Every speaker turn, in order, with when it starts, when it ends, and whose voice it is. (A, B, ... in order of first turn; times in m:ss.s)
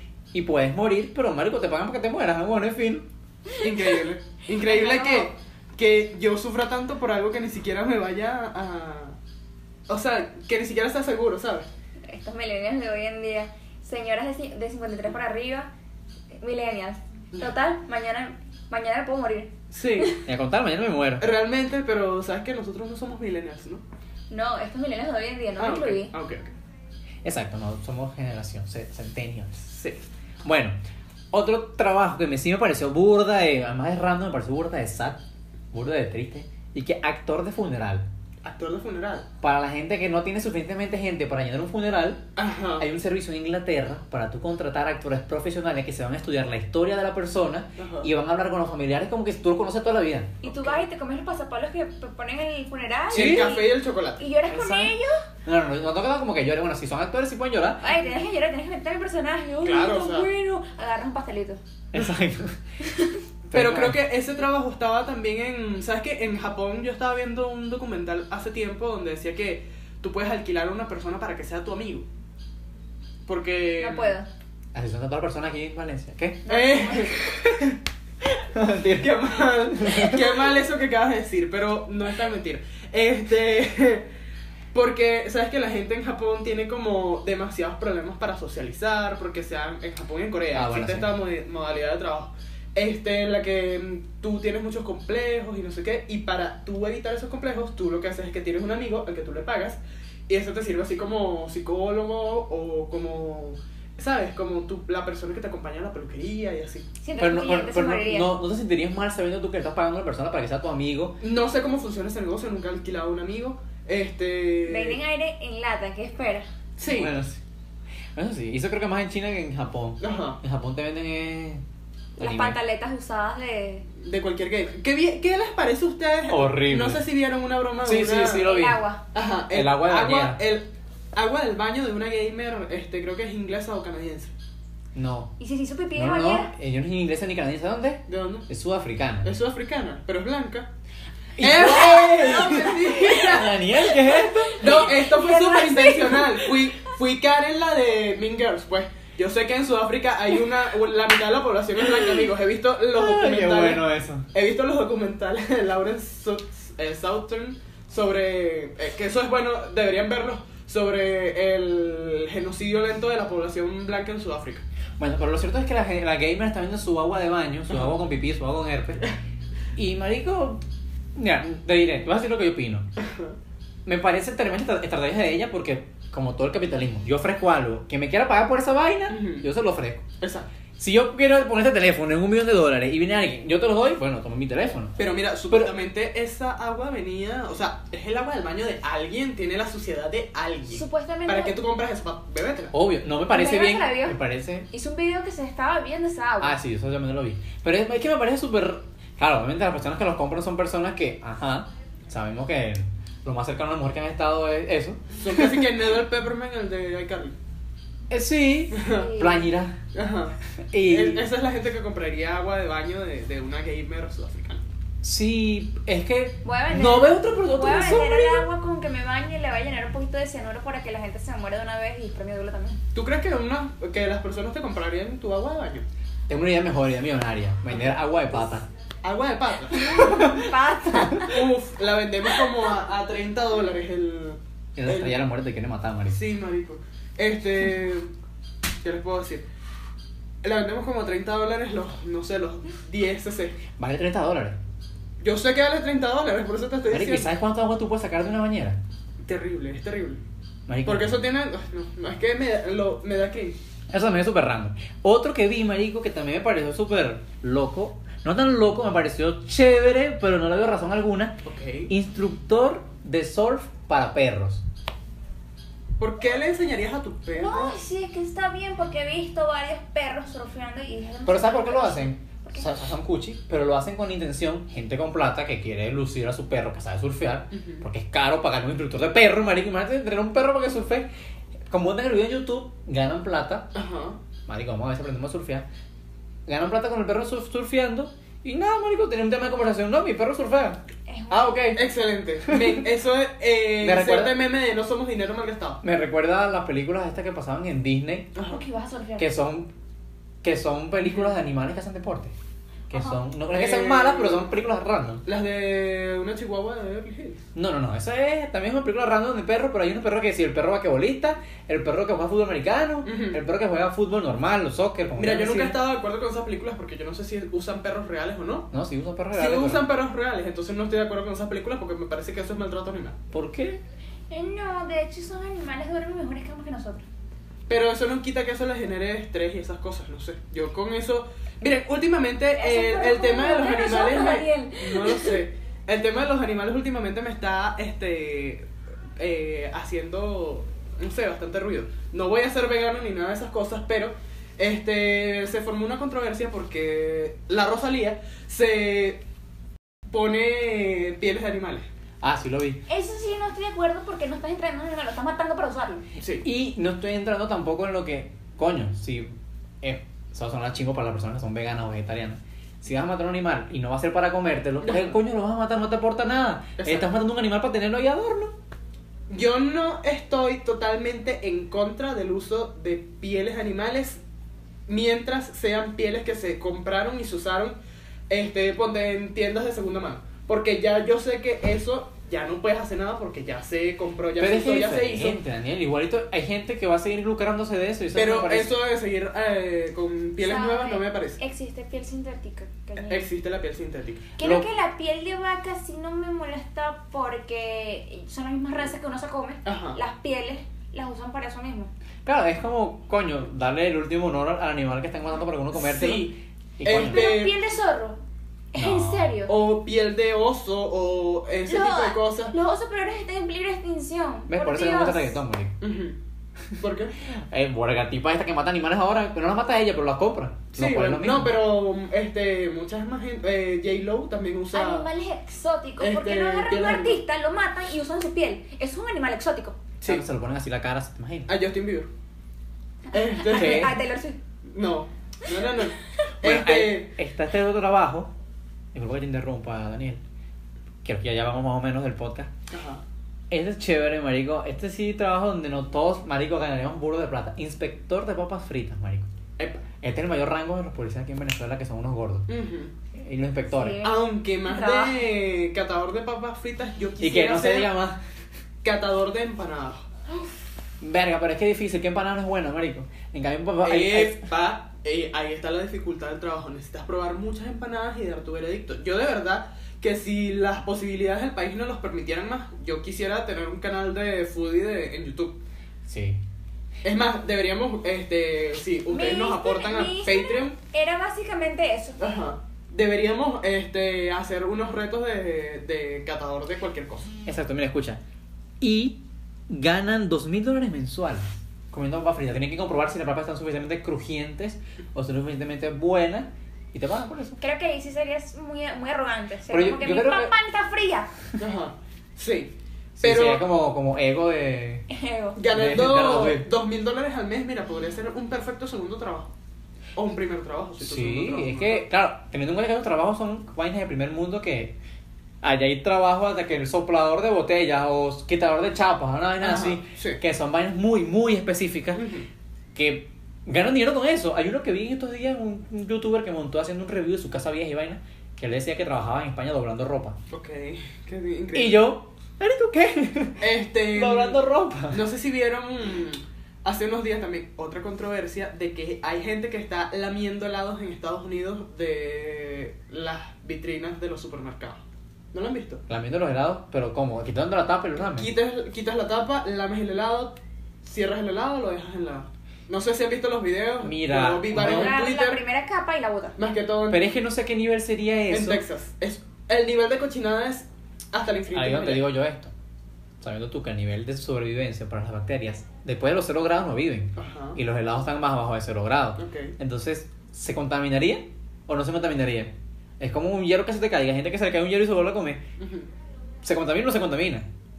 0:00.3-0:03.1 A
0:03.6-0:09.2 B
0:04.6-0:05.3 C
0:09.9-0:11.7 B
0:12.0-0:15.7 C
0:16.4-0:20.2 C
0:19.7-0:20.2 B
0:20.2-0:21.2 A
0:21.2-0:23.8 B
0:24.3-0:26.1 C
0:25.6-0:26.5 B
0:27.2-0:29.7 A
0:29.7-0:30.0 B
0:30.4-0:30.8 A
0:31.3-0:35.2 A
0:35.7-0:38.0 A
0:38.4-0:39.3 B
0:39.4-0:42.2 A
0:42.4-0:42.8 B
0:42.8-0:50.4 A
0:47.8-0:48.1 B
0:50.4-0:55.2 C
0:50.5-0:50.8 B
0:53.1-0:54.2 B
0:53.1-0:53.6 A
0:54.5-0:54.9 A
0:55.4-0:57.8 A
0:57.8-1:01.6 C
0:59.6-1:00.3 B
1:01.9-1:02.6 A
1:02.9-1:03.1 C
1:03.5-1:04.0 A
1:03.5-1:12.1 B
1:13.2-1:14.2 B
1:13.8-1:14.3 C
1:14.7-1:16.4 A
1:16.4-1:17.2 C
1:16.4-1:17.8 B
1:18.5-1:19.2 A
1:19.0-1:24.1 B
1:19.7-1:20.4 A
1:24.7-1:46.9 B
1:30.5-1:31.1 A
1:47.0-1:48.3 C
1:47.2-1:51.2 A
1:51.2-1:55.0 B
1:54.6-1:56.5 C
1:56.8-1:57.1 B
1:56.9-1:57.4 A
1:58.1-2:01.6 A
2:00.0-2:00.4 B
2:02.2-2:02.6 A
2:02.2-2:03.8 C
2:04.0-2:08.5 B
2:06.3-2:07.0 A
2:07.8-2:08.8 A
2:08.4-2:09.0 C
2:09.1-2:14.3 B
2:09.5-2:10.4 A
2:14.9-2:15.3 A
2:15.4-2:16.5 C
2:15.9-2:19.3 A
2:18.1-2:18.5 B
2:19.2-2:20.7 B
2:21.4-2:24.8 A
2:21.4-2:23.6 B
2:22.1-2:23.2 C
2:23.8-2:26.5 C
2:24.5-2:44.6 B
2:32.9-2:34.2 A
2:45.0-2:49.1 A
2:49.7-2:50.6 A
2:51.2-2:52.9 A
2:53.0-2:53.3 B
2:53.8-3:00.0 A
2:59.1-2:59.4 B
3:00.2-3:00.5 B
3:00.8-3:05.0 A
3:05.0-3:12.7 B
3:10.7-3:11.6 C
3:12.7-3:14.7 A
3:13.3-3:14.2 C
3:14.7-3:16.6 C
3:16.4-3:25.7 A
3:25.2-3:27.4 B
3:28.1-3:29.8 A
3:28.7-3:29.1 B
3:28.8-3:29.4 C
3:29.9-3:34.6 B
3:30.6-3:31.2 A
3:35.0-3:38.5 A
3:36.4-3:42.8 C
3:42.9-3:45.8 B
3:46.3-3:48.7 A
3:49.0-3:50.0 B
3:49.7-3:51.4 C
3:50.0-3:51.2 A
3:51.2-3:55.2 B
3:54.8-3:56.2 A
3:56.1-3:58.1 B
3:58.8-3:59.4 B
4:00.4-4:03.6 B
4:03.8-4:04.6 A
4:05.2-4:07.3 B
4:06.9-4:08.8 A
4:09.2-4:10.2 B
4:10.7-4:11.2 A
4:10.8-4:13.6 B
4:13.9-4:21.4 A
4:21.4-4:21.9 B
4:21.9-4:24.6 A
4:26.0-4:27.8 B
4:27.3-4:32.7 C
4:31.2-4:41.1 A
4:37.5-4:37.8 B
4:41.7-4:43.7 A
4:43.7-4:44.2 B
4:44.5-4:45.7 A
4:46.5-4:51.8 A
4:51.1-4:51.5 C
4:51.7-4:55.8 B
4:52.5-4:52.8 A
4:53.8-4:54.4 A
4:55.8-4:58.3 A
4:58.3-4:58.6 B
4:58.4-4:59.3 C
4:59.2-4:59.7 A
5:00.4-5:02.3 A
5:02.9-5:05.2 A
5:03.5-5:04.5 B
5:05.2-5:07.4 B
5:07.5-5:15.8 A
5:13.0-5:13.4 B
5:15.2-5:18.7 B
5:18.7-5:19.8 A
5:19.3-5:23.2 B
5:23.3-5:23.8 A
5:24.3-5:27.0 C
5:27.7-5:38.7 B
5:32.6-5:35.4 C
5:39.2-5:49.2 B
5:50.1-5:51.9 B
5:52.2-5:52.8 A
5:52.9-5:56.0 C
5:56.2-5:56.4 B
5:56.4-6:08.5 A
6:04.8-6:05.2 B
6:06.8-6:07.1 B
6:09.3-6:14.2 B
6:14.9-6:17.8 B
6:18.3-6:25.4 B
6:24.4-6:28.7 A
6:28.1-6:31.4 B
6:30.4-6:33.2 C
6:33.0-6:34.3 B
6:34.4-6:41.9 C
6:34.4-6:34.6 A
6:39.6-6:40.0 B
6:42.2-6:47.3 A
6:45.7-6:47.6 B
6:47.0-6:48.2 C
6:48.7-6:49.5 C
6:48.8-6:49.3 A
6:49.5-6:52.5 B
6:51.7-6:55.4 C
6:54.5-6:55.7 A
6:55.8-6:56.2 B
6:56.8-6:57.1 B
6:57.2-7:01.6 A
7:00.7-7:05.1 B
7:04.7-7:09.8 C
7:06.0-7:07.2 B
7:10.0-7:11.5 A
7:11.5-7:12.1 B
7:13.1-7:14.0 B
7:13.1-7:14.4 C
7:13.5-7:14.0 A
7:14.7-7:17.1 B
7:16.4-7:18.3 A
7:18.9-7:20.2 A
7:21.0-7:22.5 A
7:22.7-7:23.0 B
7:23.5-7:29.3 A
7:29.6-7:29.8 B
7:30.0-7:32.5 A
7:32.5-7:32.9 B
7:33.1-7:34.0 A
7:33.7-7:35.2 C
7:34.0-7:37.9 B
7:37.2-7:38.2 A
7:38.8-7:40.0 B
7:41.0-7:44.4 A
7:43.8-7:55.6 B
7:56.0-7:56.4 A
7:57.0-8:00.8 B
7:59.1-8:02.2 C
8:02.2-8:07.3 B
8:07.4-8:08.2 A
8:08.8-8:17.6 A
8:17.6-8:21.3 C
8:19.7-8:20.5 A
8:21.6-8:23.6 B
8:23.2-8:25.0 A
8:25.1-8:25.6 C
8:25.6-8:29.5 B
8:25.7-8:26.7 A
8:30.2-8:32.0 B
8:31.0-8:35.0 A
8:35.6-8:42.3 A
8:39.6-8:40.4 B
8:42.2-8:42.5 B
8:42.9-8:50.4 A
8:50.5-8:52.1 B
8:51.7-8:55.2 A
8:53.6-9:05.0 B
9:05.5-9:06.0 B
9:06.1-9:08.5 A
9:08.3-9:15.6 B
9:14.0-9:15.1 A
9:14.7-9:16.6 C
9:16.6-9:17.3 B
9:17.1-9:18.8 A
9:18.5-9:22.2 B
9:21.7-9:22.7 A
9:23.4-9:35.6 A
9:27.4-9:27.8 B
9:29.4-9:29.7 B
9:35.8-9:36.1 B
9:36.6-9:37.6 A